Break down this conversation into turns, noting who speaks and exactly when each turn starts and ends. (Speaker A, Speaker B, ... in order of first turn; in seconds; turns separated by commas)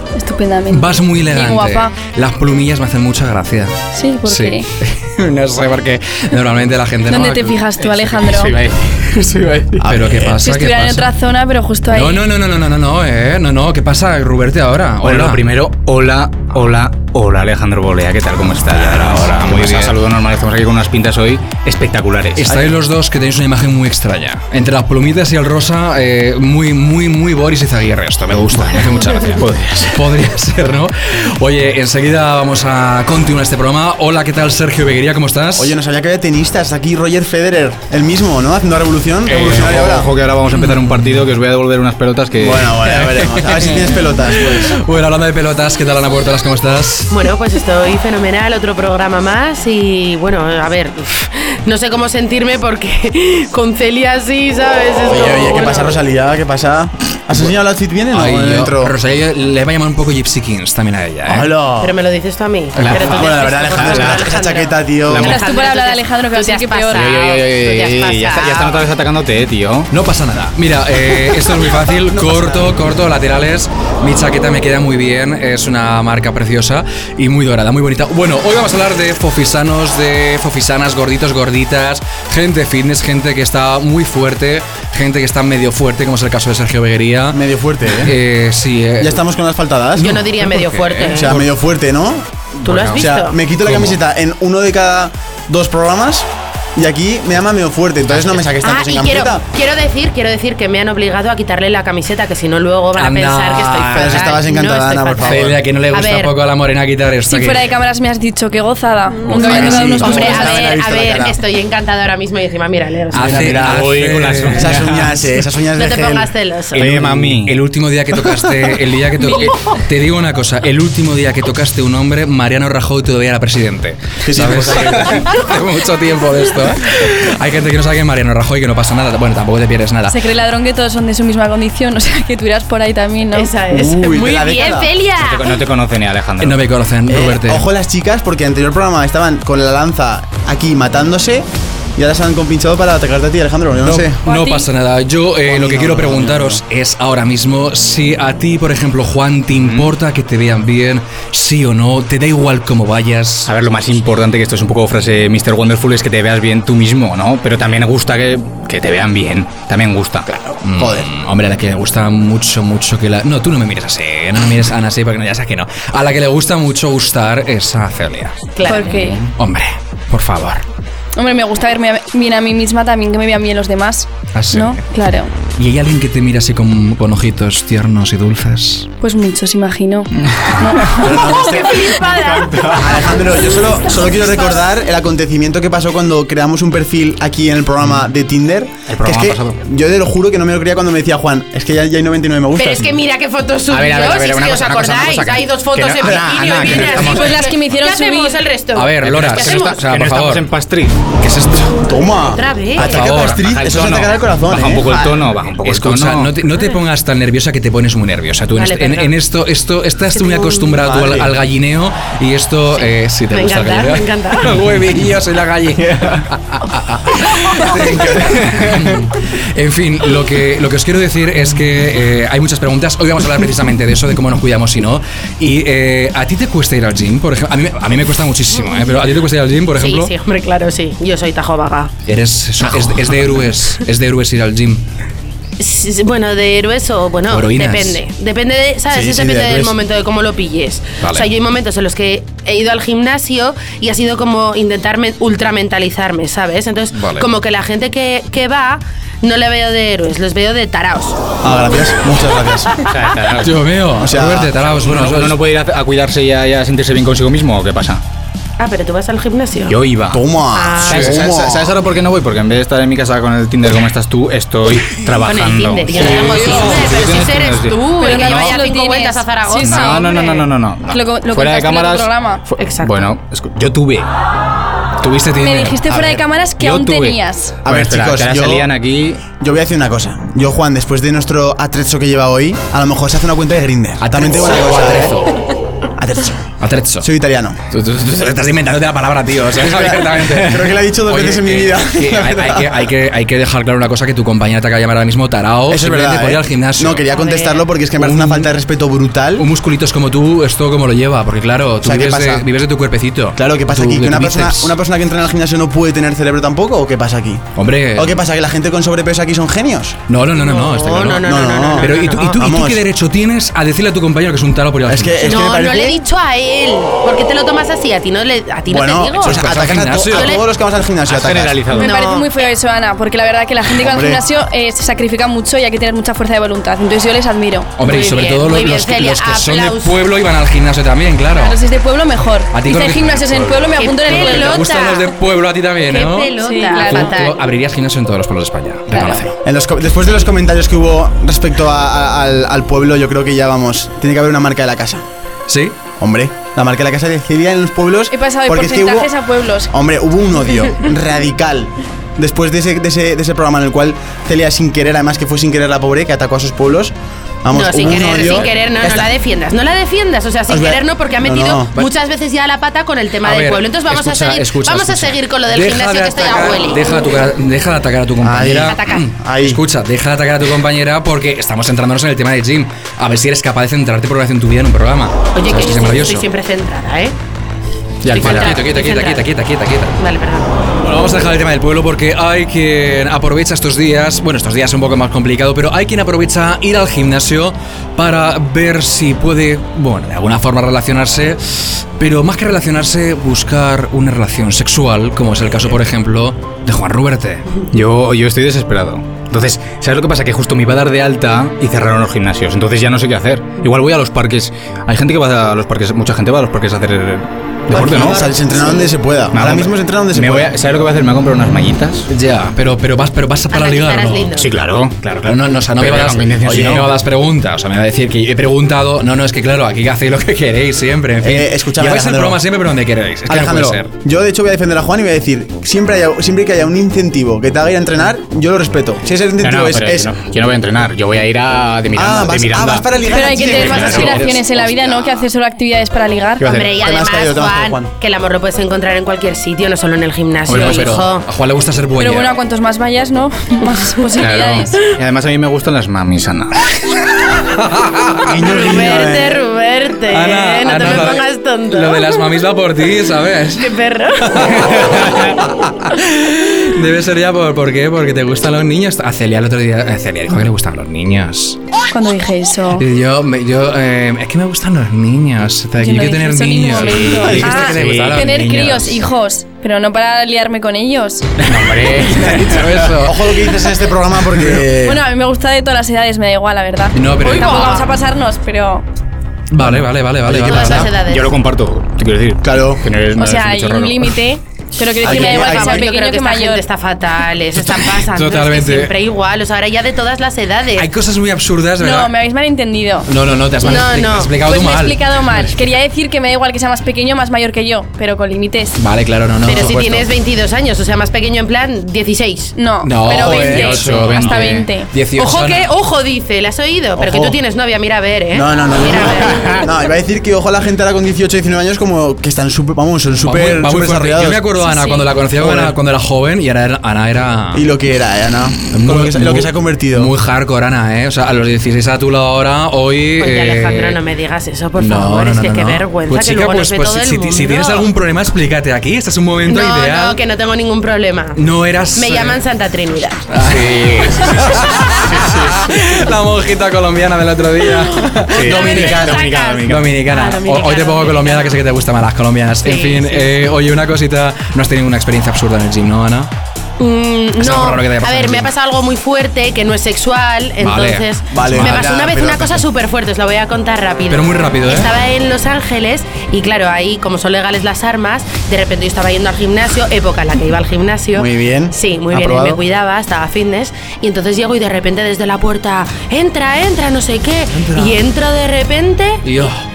Speaker A: 0.1-1.9, Speaker B: 0.7-7.6, Speaker A: 3.9-4.7, Speaker A: 7.1-8.6, Speaker C: 7.8-9.8, Speaker D: 9.8-10.3, Speaker B: 9.8-11.1, Speaker A: 10.4-12.2, Speaker B: 11.9-15.4, Speaker C: 15.0-22.5, Speaker B: 18.8-19.9, Speaker B: 22.4-35.7, Speaker C: 29.4-30.0, Speaker D: 35.6-40.1, Speaker B: 39.3-39.7, Speaker C: 39.5-42.7, Speaker B: 40.6-40.9, Speaker D: 42.4-44.8, Speaker B: 42.9-47.1, Speaker E: 47.1-56.0, Speaker D: 55.1-59.0, Speaker B: 58.1-61.5, Speaker D: 61.3-62.0, Speaker E: 61.8-68.8, Speaker D: 62.8-65.4, Speaker C: 63.7-64.3, Speaker C: 65.1-65.4, Speaker A: 65.2-67.1, Speaker C: 66.9-69.9, Speaker B: 69.9-87.4, Speaker D: 72.1-72.7, Speaker D: 87.3-88.2, Speaker B: 88.0-89.2, Speaker D: 89.0-90.2, Speaker B: 89.9-91.5, Speaker E: 90.0-91.3, Speaker D: 91.1-99.4, Speaker B: 92.6-93.1, Speaker E: 92.6-93.4, Speaker B: 93.7-93.9, Speaker E: 98.6-106.3, Speaker B: 103.0-104.4, Speaker D: 103.9-105.6, Speaker B: 105.2-107.7, Speaker A: 107.3-110.8, Speaker D: 109.3-111.4, Speaker E: 109.3-113.5, Speaker B: 113.1-114.8, Speaker D: 113.2-114.0, Speaker C: 113.5-115.2, Speaker D: 114.5-117.0, Speaker E: 115.8-116.8, Speaker C: 116.7-117.6, Speaker B: 117.4-130.2, Speaker A: 119.2-119.5, Speaker D: 124.2-125.2, Speaker A: 130.1-133.5, Speaker E: 133.3-135.6, Speaker D: 133.7-134.9, Speaker C: 135.2-136.6, Speaker B: 136.4-137.7, Speaker D: 137.1-144.2, Speaker B: 143.8-153.5, Speaker A: 144.2-144.7, Speaker D: 145.5-146.6, Speaker C: 149.5-149.9, Speaker C: 153.5-160.3, Speaker D: 160.5-161.1, Speaker B: 160.6-168.3, Speaker E: 168.6-169.2, Speaker A: 168.7-169.2, Speaker B: 169.4-170.6, Speaker A: 171.2-175.3, Speaker B: 174.3-174.8, Speaker B: 175.6-178.9, Speaker A: 179.0-181.5, Speaker C: 180.3-180.9, Speaker D: 181.0-192.9, Speaker E: 181.1-183.4, Speaker C: 188.9-189.6, Speaker E: 192.6-199.8, Speaker C: 193.7-197.4, Speaker A: 196.9-198.4, Speaker B: 198.7-200.4, Speaker C: 199.0-201.0, Speaker B: 201.2-201.8, Speaker D: 201.8-205.1, Speaker E: 202.3-203.2, Speaker B: 202.8-203.4, Speaker C: 203.3-206.4, Speaker B: 205.6-230.1, Speaker E: 208.5-209.1, Speaker E: 210.1-210.7, Speaker D: 210.8-211.3, Speaker E: 212.8-214.6, Speaker C: 215.8-216.2, Speaker C: 218.2-218.8, Speaker E: 228.6-228.9, Speaker E: 229.8-231.9, Speaker B: 232.1-234.8, Speaker E: 235.6-251.2, Speaker B: 237.3-238.0, Speaker D: 238.9-239.8, Speaker B: 241.0-241.3, Speaker B: 246.9-247.3, Speaker D: 251.4-252.7, Speaker C: 252.9-253.6, Speaker B: 253.4-255.4, Speaker D: 254.0-254.5, Speaker C: 254.8-258.0, Speaker E: 258.6-259.8, Speaker C: 259.7-260.2, Speaker D: 260.1-261.7, Speaker E: 260.5-261.2, Speaker C: 260.9-268.6, Speaker B: 260.9-261.1, Speaker E: 265.2-270.3, Speaker B: 266.1-266.9, Speaker A: 268.0-272.4, Speaker C: 269.6-274.1, Speaker E: 272.6-273.1, Speaker B: 275.0-275.8, Speaker A: 275.4-277.6, Speaker D: 275.9-276.2, Speaker C: 276.6-279.2, Speaker D: 277.6-278.7, Speaker D: 279.4-285.3, Speaker B: 284.0-285.4, Speaker D: 286.0-287.6, Speaker B: 286.6-287.1, Speaker B: 287.7-297.1, Speaker D: 289.6-292.7, Speaker D: 295.7-299.5, Speaker E: 297.1-297.7, Speaker B: 298.0-298.5, Speaker B: 299.4-304.7, Speaker D: 301.8-302.4, Speaker D: 303.4-307.4, Speaker B: 307.6-308.2, Speaker D: 308.0-310.0, Speaker B: 310.1-315.4, Speaker E: 310.4-312.4, Speaker D: 311.2-312.8, Speaker D: 314.9-316.0, Speaker E: 315.2-320.4, Speaker D: 318.7-321.7, Speaker B: 319.2-320.4, Speaker C: 321.1-321.9, Speaker A: 321.7-327.7, Speaker E: 321.8-322.4, Speaker D: 323.8-324.2, Speaker B: 327.8-331.6, Speaker E: 327.9-329.9, Speaker A: 331.4-334.7, Speaker B: 332.5-339.4, Speaker E: 333.8-335.1, Speaker E: 335.8-337.4, Speaker A: 336.4-337.1, Speaker A: 338.9-339.2, Speaker D: 339.4-345.0, Speaker B: 345.5-345.8, Speaker D: 346.0-349.1, Speaker A: 348.1-349.7, Speaker D: 349.7-359.1, Speaker E: 357.5-366.8, Speaker D: 360.5-361.7, Speaker B: 363.2-376.3, Speaker D: 368.2-369.6, Speaker E: 368.6-369.0, Speaker E: 375.4-377.1, Speaker C: 378.0-378.6, Speaker B: 378.1-380.0, Speaker E: 378.1-379.2, Speaker E: 380.0-380.5, Speaker B: 380.8-397.5, Speaker C: 397.7-408.3, Speaker D: 407.7-410.5, Speaker E: 407.9-408.9, Speaker C: 409.3-412.1, Speaker B: 412.1-414.4, Speaker E: 413.5-414.5, Speaker C: 414.4-415.0, Speaker B: 415.0-423.9, Speaker C: 415.8-416.9, Speaker D: 416.5-416.8, Speaker D: 421.2-422.4, Speaker D: 423.3-430.1, Speaker C: 429.4-434.3, Speaker D: 431.9-435.2, Speaker A: 433.1-436.5, Speaker C: 436.4-436.7, Speaker E: 436.4-441.2, Speaker D: 436.8-437.9, Speaker B: 440.5-442.3, Speaker A: 442.0-444.8, Speaker C: 444.2-446.8, Speaker B: 447.6-448.3, Speaker D: 448.3-449.4, Speaker E: 448.4-452.2, Speaker B: 450.1-461.6, Speaker E: 453.6-455.0, Speaker A: 461.9-462.8, Speaker B: 462.8-469.0, Speaker A: 465.8-471.3, Speaker C: 466.9-468.3, Speaker C: 471.4-472.9, Speaker B: 472.1-473.5, Speaker D: 473.0-475.0, Speaker A: 474.8-478.9, Speaker B: 477.0-477.9, Speaker E: 477.2-477.9, Speaker B: 479.5-480.9, Speaker E: 480.4-481.4, Speaker C: 480.4-484.2, Speaker D: 480.5-480.8, Speaker D: 482.4-482.9, Speaker A: 483.2-486.6, Speaker D: 485.0-485.9, Speaker E: 485.0-490.9, Speaker B: 487.6-488.9, Speaker B: 490.8-492.1, Speaker A: 491.8-493.1, Speaker B: 493.1-495.5, Speaker E: 493.6-494.3, Speaker A: 494.4-498.8, Speaker B: 498.8-500.1, Speaker E: 499.4-502.5, Speaker A: 502.6-504.9, Speaker B: 502.8-505.7, Speaker E: 503.1-503.7, Speaker C: 503.5-504.7, Speaker E: 505.2-509.7, Speaker D: 507.0-507.4, Speaker D: 508.3-514.5, Speaker B: 513.2-517.7, Speaker A: 514.6-515.1, Speaker D: 515.4-515.8, Speaker D: 517.5-520.1, Speaker B: 518.7-524.0, Speaker E: 523.2-527.9, Speaker B: 524.8-530.2, Speaker E: 529.5-531.4, Speaker B: 531.4-532.4, Speaker E: 532.0-533.2, Speaker B: 533.3-546.3, Speaker C: 533.4-535.5, Speaker E: 538.3-541.6, Speaker C: 538.3-539.9, Speaker E: 542.6-543.3, Speaker E: 546.8-569.2, Speaker B: 547.4-548.5, Speaker B: 550.6-551.9, Speaker D: 551.3-552.7, Speaker B: 554.1-554.9, Speaker D: 561.1-562.6, Speaker B: 567.5-568.0, Speaker B: 569.2-569.6